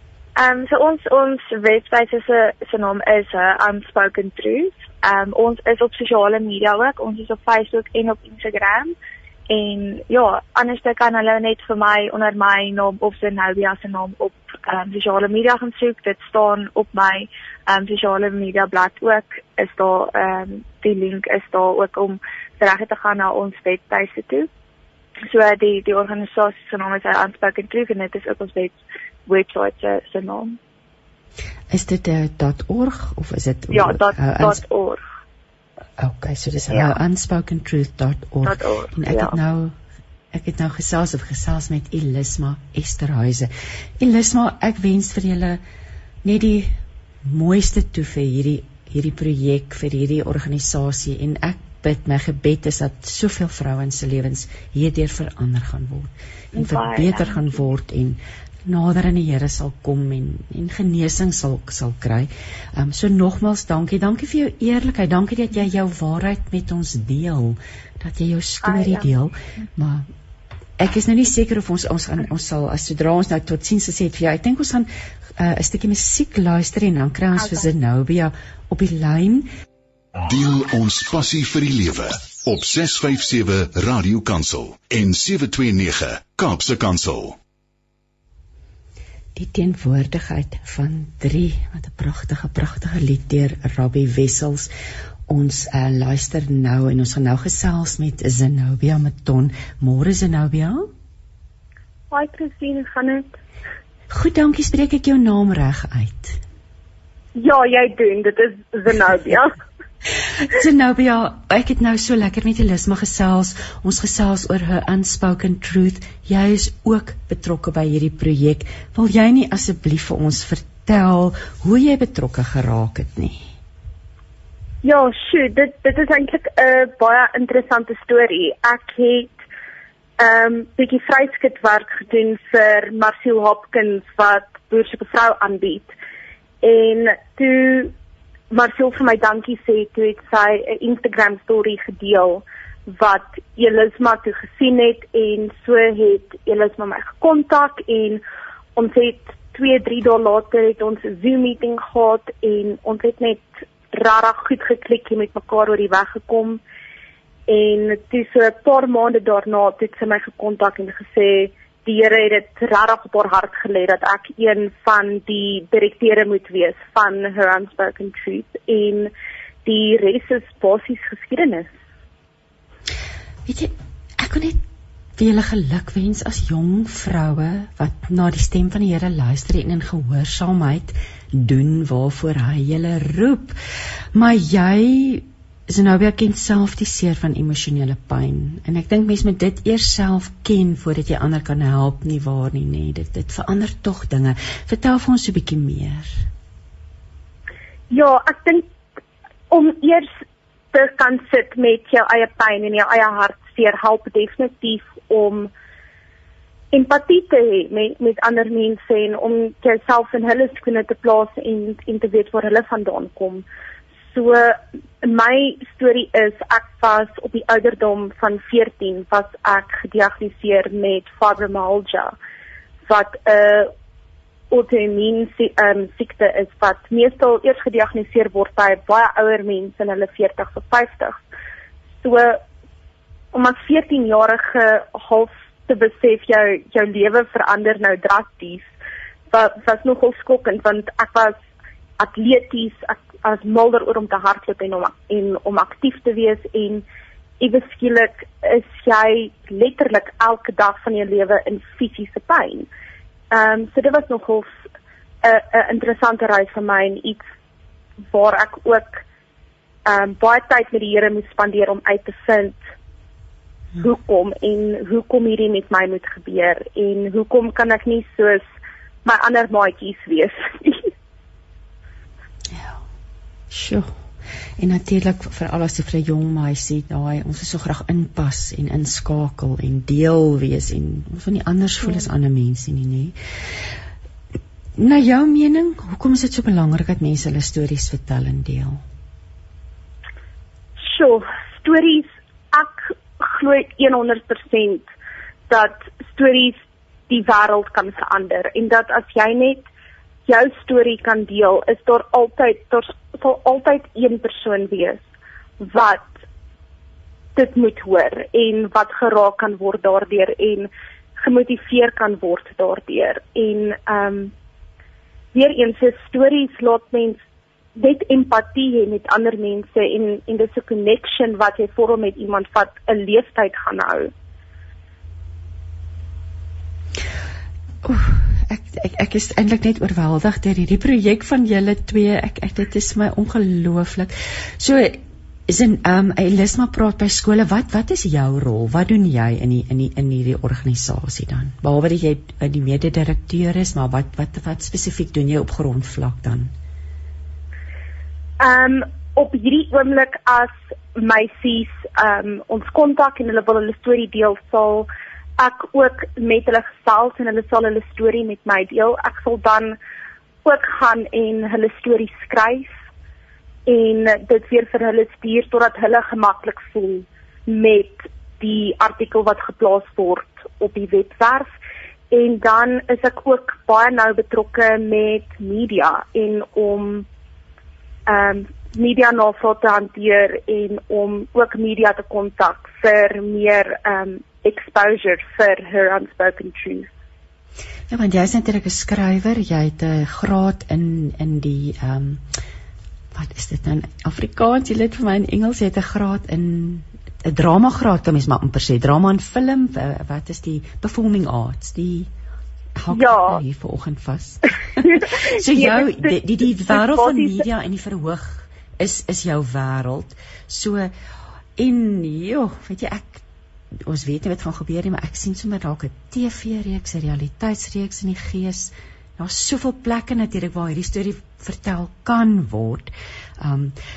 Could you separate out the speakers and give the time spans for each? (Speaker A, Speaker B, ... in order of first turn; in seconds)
Speaker A: 0.4-8.9, 9.5-24.5, 25.3-30.6, 33.7-35.0, 36.7-36.9, 38.4-39.4, 56.5-57.6, 68.7-69.1
Speaker B: 31.7-34.6, 36.0-39.8, 40.3-45.6, 46.2-70.1, 70.8-79.5, 89.3-94.7, 95.3-100.9, 104.1-106.4, 110.4-123.4, 173.5-174.6, 175.2-183.6, 184.2-196.2, 272.5-272.8, 273.5-273.9, 274.6-283.1, 284.8-288.8, 327.8-346.5, 387.9-392.2, 393.1-402.1, 402.8-410.9, 411.6-413.2, 413.9-423.8
Speaker C: 80.2-87.4
Speaker D: 102.1-103.3, 107.3-109.6, 124.8-129.4, 130.2-135.9, 136.6-137.9, 138.5-148.2, 148.8-156.6, 157.5-169.1, 169.7-171.7, 197.9-198.7, 199.5-200.2, 200.7-205.5, 206.7-213.4, 214.1-222.2, 222.9-223.7, 224.5-231.2, 232.0-232.4, 233.3-238.7, 239.3-241.4, 242.0-246.8, 247.4-252.7, 253.3-254.6, 255.2-257.2, 258.1-259.0, 259.9-262.6, 263.8-268.4, 269.1-270.9, 290.8-294.9, 295.5-299.7, 300.3-305.1, 305.6-306.1, 307.4-314.3, 315.3-317.2, 317.8-324.1, 348.4-359.8, 360.4-362.8, 363.7-371.5, 372.1-377.1, 378.1-386.9, 402.9-403.4, 404.8-407.4